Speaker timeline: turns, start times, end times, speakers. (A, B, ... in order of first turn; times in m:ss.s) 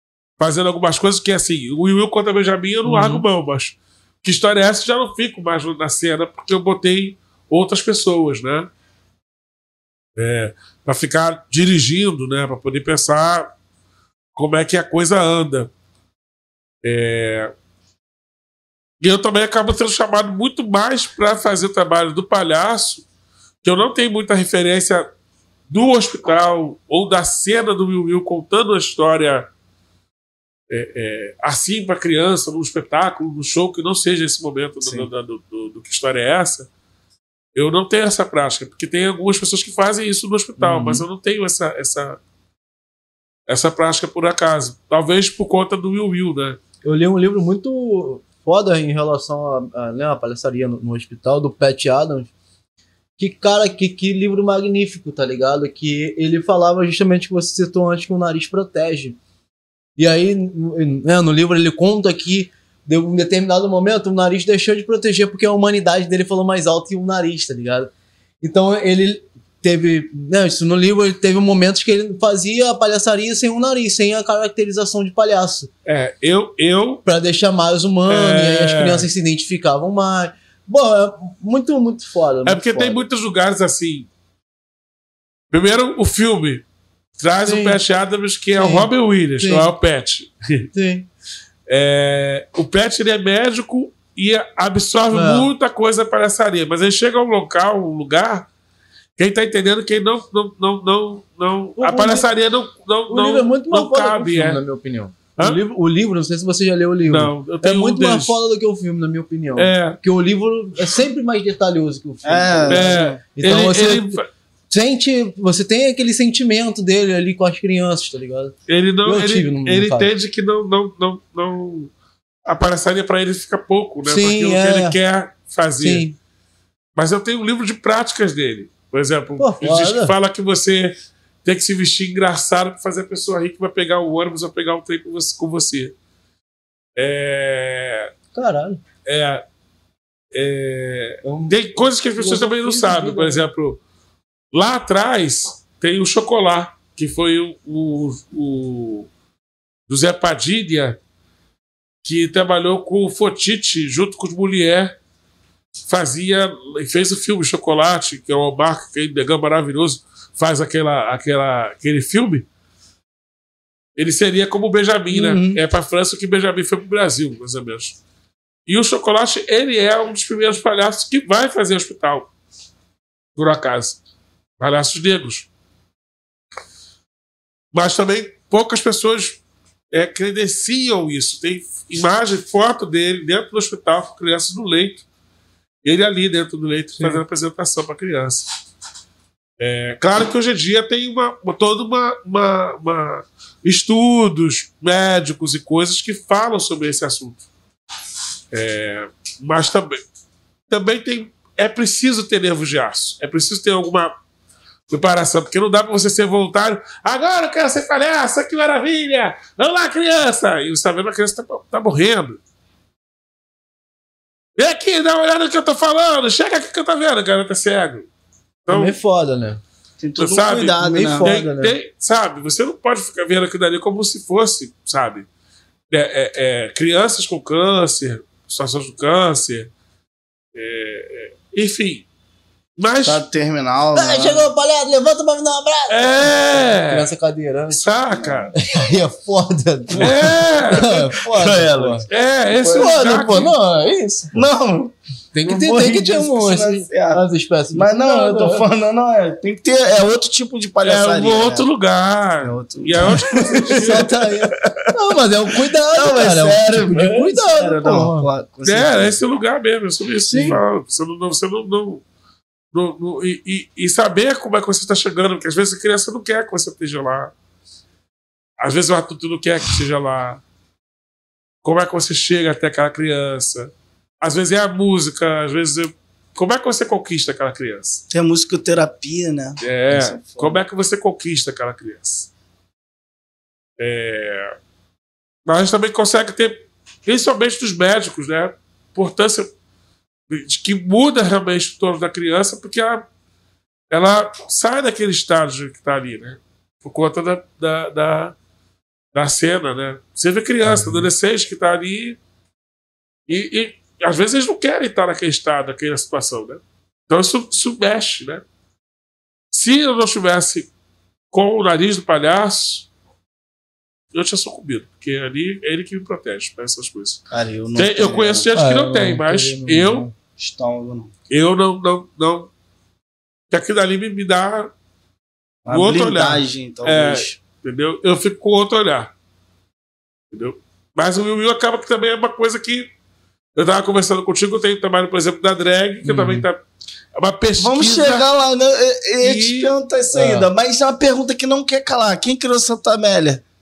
0:00.4-0:08.7 A
0:02.8-0:03.3 B
0:10.2-0:13.5 A
0:14.3-0:15.7 A
0:16.8-0:17.5 A
0:19.0-0:23.0 A
0:23.6-0:25.1 A
0:25.7-0:29.5 A
0:30.7-0:36.7 A
0:34.8-0:35.1 C
0:37.6-0:42.2 A
0:40.6-0:41.0 B
0:43.5-0:46.6 A
0:46.8-0:52.3 B
0:53.2-0:59.2 B
1:00.0-1:15.7 B
1:15.8-1:17.0 A
1:17.0-1:23.0 B
1:18.1-1:19.1 A
1:22.4-1:24.1 A
1:25.5-1:26.6 A
1:27.2-1:30.7 A
1:27.4-1:27.8 B
1:28.6-1:29.7 B
1:30.7-1:31.1 B
1:31.7-1:38.5 A
1:35.1-1:35.5 B
1:39.2-1:44.6 A
1:41.8-1:42.3 B
1:43.1-1:54.2 B
1:47.1-1:48.4 A
1:49.6-1:50.0 A
1:52.2-1:53.2 C
1:52.7-1:54.3 A
1:54.7-2:00.1 B
1:58.7-2:01.9 A
2:02.4-2:06.1 A
2:04.0-2:05.0 B
2:05.8-2:06.2 B
2:07.0-2:15.9 A
2:09.4-2:10.1 B
2:17.0-2:18.1 A
2:18.3-2:18.8 B
2:19.0-2:19.4 A
2:20.3-2:23.8 A
2:21.2-2:23.4 B
2:24.5-2:29.1 A
2:29.9-2:31.0 A
2:32.0-2:35.0 A
2:35.9-2:42.4 A
2:44.0-2:48.0 A
2:45.1-2:45.6 C
2:48.7-2:52.3 A
2:53.4-2:54.0 A
2:54.6-2:55.5 A
2:57.7-2:59.4 A
2:59.9-3:05.0 A
3:05.8-3:08.5 A
3:07.0-3:07.2 B
3:09.6-3:17.4 A
3:18.5-3:20.0 A
3:20.7-3:24.1 A
3:24.9-3:32.4 A
3:34.6-3:38.1 A
3:38.6-3:39.0 A
3:38.7-3:39.6 B
3:40.0-3:41.3 C
3:40.2-3:45.3 A
3:40.8-3:41.7 B
3:45.9-3:49.7 A
3:50.6-3:52.0 A
3:52.8-3:53.2 A
3:53.0-3:54.4 C
3:54.0-3:57.9 B
3:55.9-3:57.1 A
3:57.7-3:58.5 A
3:58.2-3:58.6 C
3:58.6-4:02.1 B
4:00.0-4:01.0 A
4:00.0-4:03.0 C
4:02.1-4:03.5 A
4:02.7-4:04.4 B
4:04.3-4:11.7 C
4:05.3-4:08.6 B
4:10.8-4:14.1 A
4:12.4-4:14.9 C
4:13.5-4:18.3 B
4:15.9-4:19.2 C
4:18.6-4:22.0 A
4:20.2-4:20.6 B
4:22.7-4:27.3 A
4:28.6-4:30.4 A
4:31.6-4:38.0 A
4:38.1-4:40.6 C
4:39.6-4:42.3 A
4:43.8-4:44.6 A
4:45.4-4:49.5 A
4:50.3-4:53.0 A
4:53.9-4:58.4 A
4:59.1-5:02.2 A
5:03.3-5:08.4 A
5:09.5-5:10.7 A
5:11.3-5:12.9 A
5:14.1-5:17.2 A
5:17.3-5:18.5 C
5:17.7-5:20.1 A
5:18.5-5:20.1 B
5:20.4-5:21.1 C
5:21.3-5:22.5 A
5:23.5-5:24.7 A
5:25.6-5:27.4 C
5:25.7-5:29.1 A
5:30.3-5:32.9 A
5:33.6-5:36.6 A
5:36.0-5:36.5 B
5:37.2-5:38.2 A
5:37.6-5:43.4 C
5:39.2-5:39.7 A
5:40.1-5:40.5 B